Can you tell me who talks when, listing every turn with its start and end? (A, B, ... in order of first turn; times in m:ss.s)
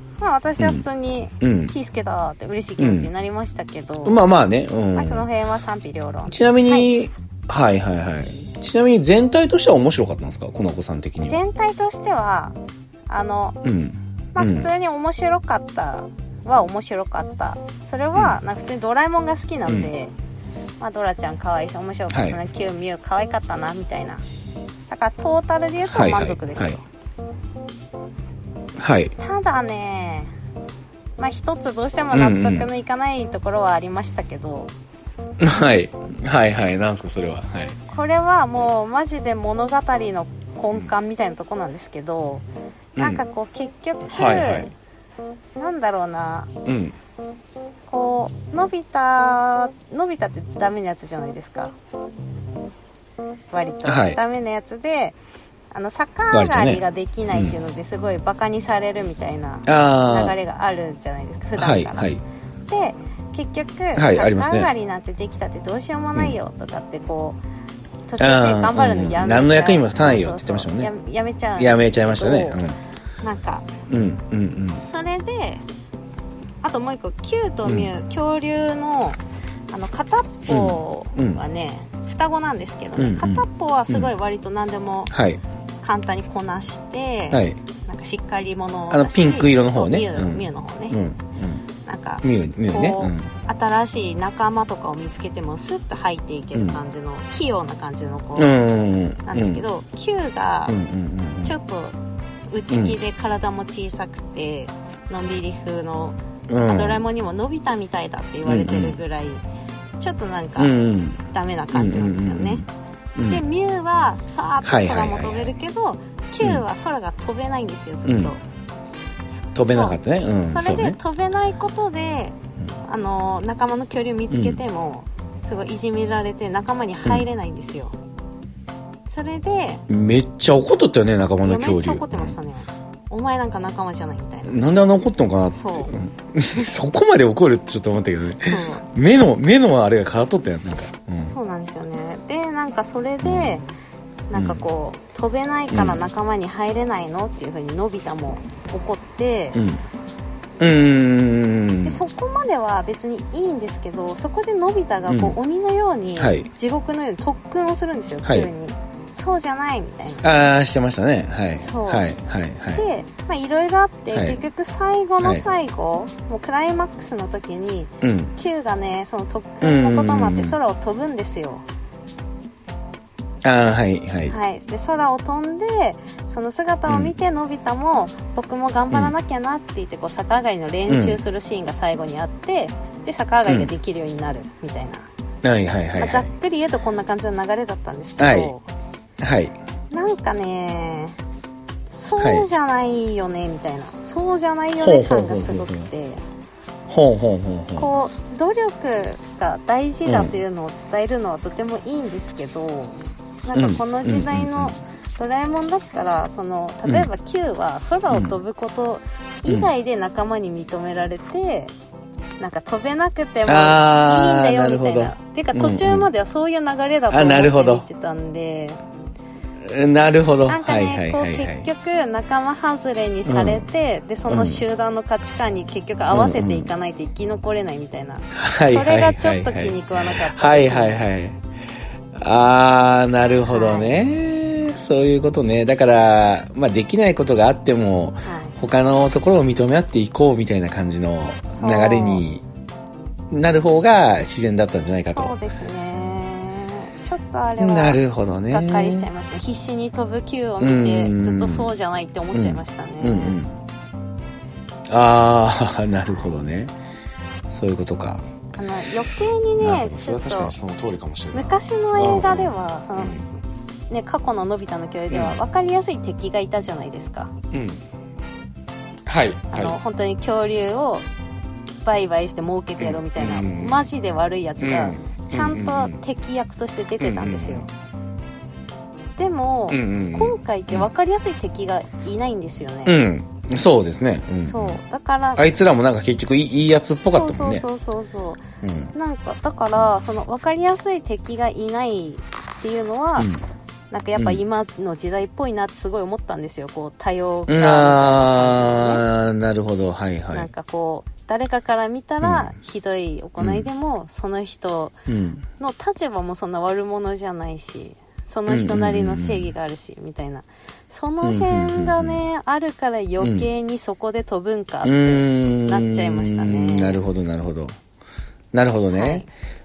0:00.2-0:04.2 A
0:00.6-0:00.8 B
0:01.4-0:01.8 B
0:02.8-0:03.1 B
0:04.0-0:05.3 B
0:05.0-0:06.9 A
0:06.3-0:11.4 B
0:11.3-0:12.6 A
0:13.1-0:13.6 A
0:13.6-0:14.7 B
0:14.4-0:20.1 A
0:18.2-0:18.4 B
0:20.8-0:24.2 A
0:22.1-0:22.4 B
0:24.9-0:26.8 A
0:25.9-0:26.8 B
0:28.8-0:29.2 B
0:29.2-0:30.3 A
0:31.2-0:34.7 A
0:32.1-0:32.7 B
0:35.4-0:37.8 B
0:37.9-0:42.4 A
0:43.0-0:43.2 B
0:43.0-0:44.7 A
0:44.1-0:44.7 B
0:45.6-0:46.5 A
0:46.6-0:47.0 B
0:47.9-0:51.8 A
0:53.5-0:55.2 A
0:53.9-0:54.2 B
0:55.7-1:02.1 A
0:56.3-0:57.6 B
0:59.7-1:00.4 B
1:01.6-1:02.2 B
1:02.7-1:07.4 A
1:04.0-1:04.7 B
1:08.1-1:12.6 A
1:08.2-1:10.9 B
1:11.6-1:12.8 B
1:13.2-1:13.7 A
1:13.9-1:14.8 B
1:14.7-1:15.6 A
1:16.6-1:19.2 A
1:17.6-1:17.9 B
1:19.7-1:25.1 A
1:20.5-1:21.4 B
1:23.0-1:24.1 B
1:25.1-1:25.4 B
1:25.8-1:31.0 A
1:27.3-1:27.6 B
1:28.9-1:31.7 B
1:31.8-1:38.5 A
1:32.2-1:33.3 B
1:36.5-1:36.8 B
1:38.4-1:39.6 B
1:39.3-1:40.8 A
1:40.7-1:41.6 B
1:41.4-1:42.0 A
1:42.5-1:49.4 A
1:42.7-1:43.0 B
1:46.5-1:47.0 B
1:48.5-1:49.0 B
1:50.0-1:50.7 A
1:50.6-1:53.4 B
1:51.3-1:52.6 A
1:53.3-1:58.4 A
1:54.6-1:55.5 B
1:58.1-1:58.3 B
1:59.4-2:08.0 A
1:59.6-2:01.0 B
2:04.3-2:04.6 B
2:09.1-2:09.8 A
2:09.9-2:12.4 B
2:11.4-2:14.8 A
2:14.4-2:21.4 B
2:15.6-2:15.9 A
2:18.4-2:18.9 A
2:21.3-2:23.6 A
2:23.2-2:23.6 B
2:24.3-2:29.6 A
2:24.3-2:24.6 B
2:25.7-2:26.0 B
2:29.5-2:29.8 B
2:30.6-2:32.0 B
2:31.8-2:40.3 A
2:35.1-2:35.4 B
2:36.2-2:36.5 B
2:38.2-2:38.5 B
2:40.2-2:42.8 B
2:41.6-2:42.1 A
2:42.8-2:51.6 A
2:44.1-2:44.4 B
2:48.0-2:48.3 B
2:49.6-2:50.6 B
2:53.4-2:54.4 B
2:54.3-3:05.1 A
2:56.9-2:57.1 B
3:00.9-3:01.2 B
3:03.5-3:03.7 B
3:05.4-3:06.3 B
3:06.0-3:08.6 A
3:08.2-3:08.5 B
3:09.2-3:09.6 B
3:09.9-3:11.2 A
3:11.9-3:16.2 A
3:12.2-3:12.5 B
3:14.8-3:15.9 B
3:16.9-3:17.9 B
3:17.8-3:31.7 A
3:20.1-3:20.4 B
3:23.5-3:24.8 B
3:28.1-3:28.4 B
3:32.4-3:38.8 A
3:33.5-3:36.1 B
3:37.1-3:37.9 B
3:39.6-3:41.7 B
3:40.5-3:51.1 A
3:43.3-3:43.7 B
3:44.3-3:44.6 B
3:46.1-3:46.7 B
3:48.3-3:51.4 B
3:52.2-4:02.4 B
3:53.5-3:53.9 A
3:58.2-3:58.6 A
4:01.5-4:02.2 A
4:03.3-4:05.4 B
4:05.1-4:13.4 A
4:07.6-4:09.1 B
4:10.6-4:11.7 B
4:12.3-4:13.6 B
4:14.9-4:16.7 B
4:16.1-4:16.4 A
4:17.5-4:18.2 B
4:18.5-4:20.5 A
4:19.0-4:23.3 B
4:21.3-4:23.2 A
4:23.9-4:27.3 A
4:25.1-4:25.4 B
4:27.5-4:27.8 B
4:29.1-4:29.8 B
4:29.5-4:31.1 A
4:31.8-4:37.7 A
4:32.8-4:33.9 B
4:34.6-4:36.0 B
4:37.0-4:37.7 B
4:39.2-4:43.0 A
4:39.7-4:40.9 B
4:42.9-4:44.8 B
4:44.4-4:45.4 A
4:45.4-4:47.6 B
4:47.1-4:48.4 A
4:48.6-4:48.9 B
4:48.9-4:53.3 A
4:53.2-4:53.4 B
4:53.9-4:59.1 A
4:54.2-4:54.4 B
4:57.5-5:00.5 B
5:00.3-5:05.0 A
5:02.2-5:02.5 B
5:03.4-5:03.7 B
5:05.1-5:05.5 B
5:05.6-5:17.0 A
5:08.5-5:09.5 B
5:11.2-5:12.2 B
5:13.2-5:13.5 B
5:14.8-5:17.8 B
5:18.5-5:19.3 B
5:18.9-5:19.3 A